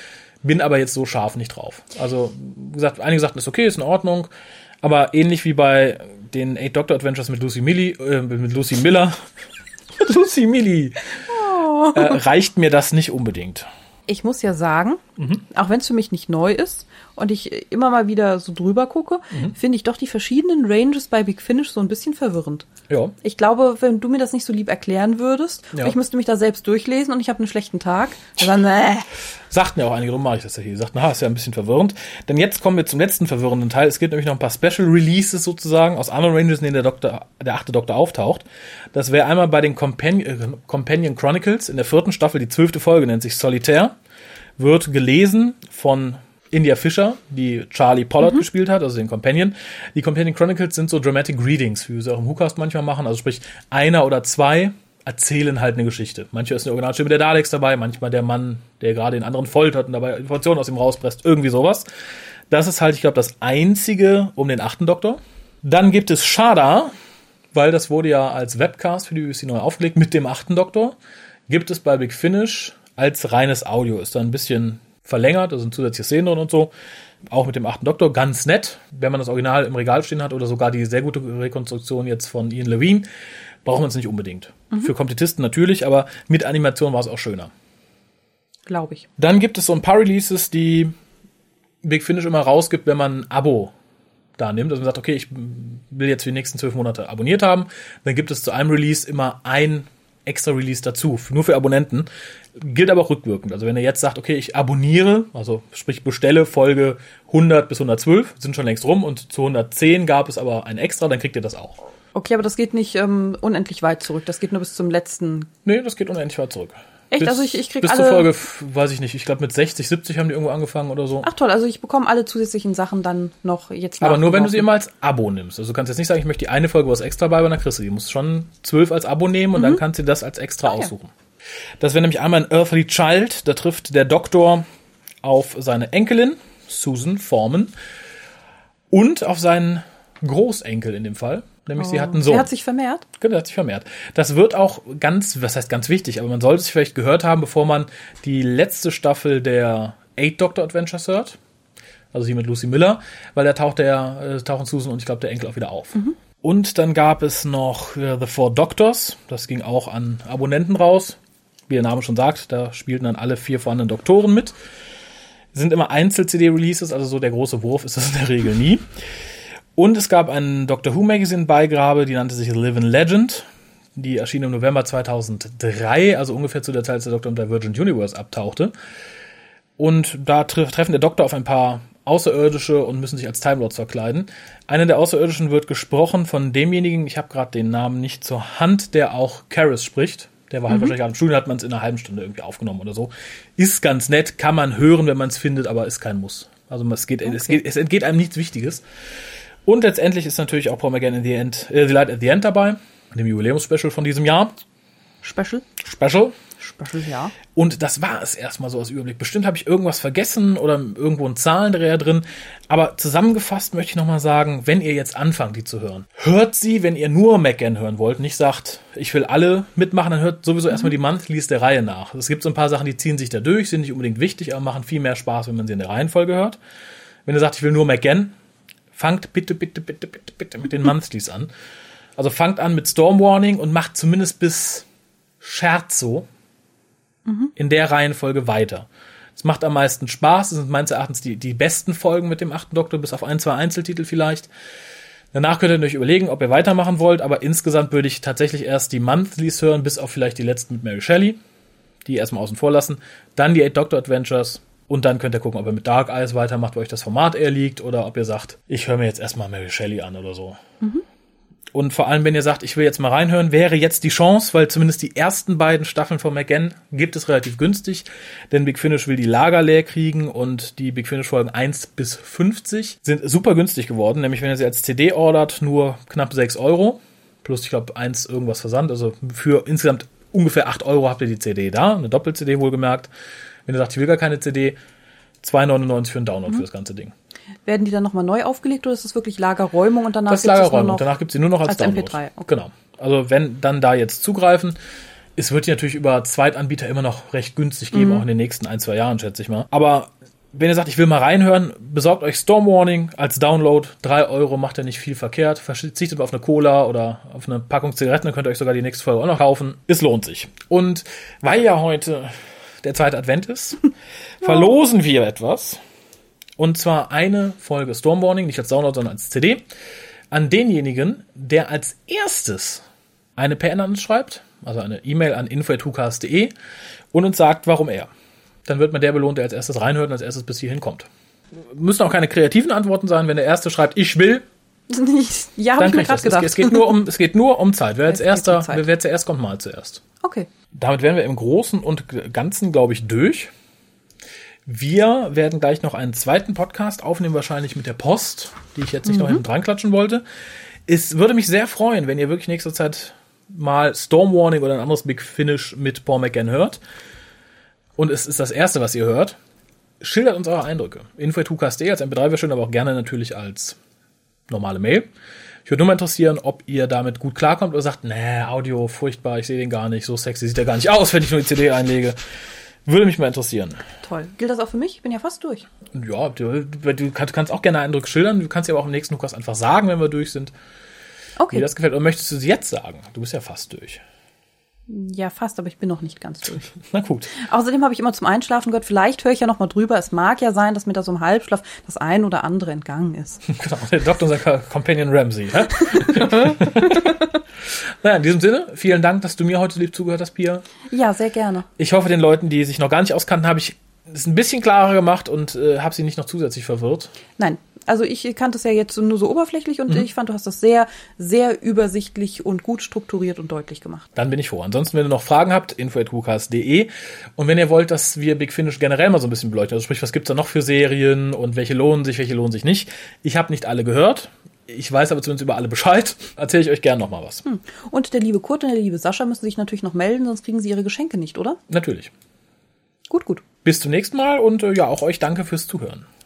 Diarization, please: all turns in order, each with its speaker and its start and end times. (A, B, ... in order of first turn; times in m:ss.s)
0:00.4-0:04.3 A
0:04.8-0:09.2 A
0:10.0-0:11.2 A
0:11.3-0:12.2 B
0:11.9-0:13.7 A
0:14.1-0:22.7 B
0:15.2-0:15.4 A
0:22.9-0:23.2 A
0:23.2-0:29.1 B
0:29.5-0:44.0 A
0:44.6-1:01.9 A
1:02.5-1:06.9 A
1:07.5-1:11.0 A
1:11.5-1:16.7 A
1:17.3-1:23.1 A
1:23.6-1:27.5 A
1:28.7-1:29.1 B
1:29.2-1:30.9 A
1:31.8-1:33.7 A
1:34.4-1:51.8 A
1:52.2-1:55.5 B
1:55.6-2:01.3 A
1:57.1-1:58.3 B
2:01.2-2:04.7 B
2:04.0-2:11.1 A
2:09.6-2:09.8 B
2:11.8-2:14.6 A
2:15.2-2:17.7 A
2:18.9-2:22.5 A
2:21.8-2:23.0 B
2:23.2-2:31.4 A
2:32.1-2:41.2 A
2:41.7-2:44.6 A
2:45.5-2:48.8 A
2:49.8-2:58.7 A
2:59.8-3:18.8 A
3:17.2-3:17.6 B
3:19.7-3:24.5 A
3:25.2-3:25.6 B
3:25.8-3:26.4 A
3:26.6-3:27.4 B
3:27.5-3:46.6 A
3:47.3-3:48.3 A
3:48.9-3:51.5 A
3:52.2-3:54.9 A
3:55.4-3:56.3 A
3:57.6-4:04.5 A
4:05.3-4:11.4 A
4:12.0-4:20.6 A
4:21.7-4:43.1 A
4:43.7-4:44.8 A
4:45.4-4:47.1 A
4:47.7-4:51.1 B
4:50.3-4:54.8 A
4:51.7-4:52.5 B
4:55.4-5:13.8 A
4:57.9-4:58.2 B
5:14.4-5:15.8 A
5:14.4-5:14.7 B
5:16.6-5:19.6 A
5:20.3-5:22.8 A
5:23.4-5:26.5 A
5:27.1-5:28.1 A
5:28.6-5:34.5 A
5:34.9-5:36.9 B
5:35.8-5:40.0 A
5:38.1-5:38.8 B
5:40.2-5:40.5 B
5:40.7-5:43.5 A
5:44.7-5:50.2 A
5:49.1-5:49.4 B
5:50.9-5:56.8 A
5:58.0-5:59.4 A
6:00.0-6:03.8 A
6:04.5-6:05.1 A
6:05.6-6:12.2 A
6:12.9-6:13.8 A
6:14.0-6:15.6 B
6:16.0-6:20.5 A
6:21.4-6:21.7 B
6:21.5-6:24.0 A
6:24.9-6:26.7 B
6:26.8-6:27.3 A
6:27.4-6:33.4 B
6:33.5-6:40.7 A
6:35.8-6:37.1 B
6:40.9-6:41.7 B
6:41.8-6:47.1 A
6:47.4-6:54.1 B
6:54.2-7:07.4 A
7:07.5-7:11.6 B
7:11.7-7:12.1 A
7:13.1-7:13.4 B
7:13.6-7:16.1 A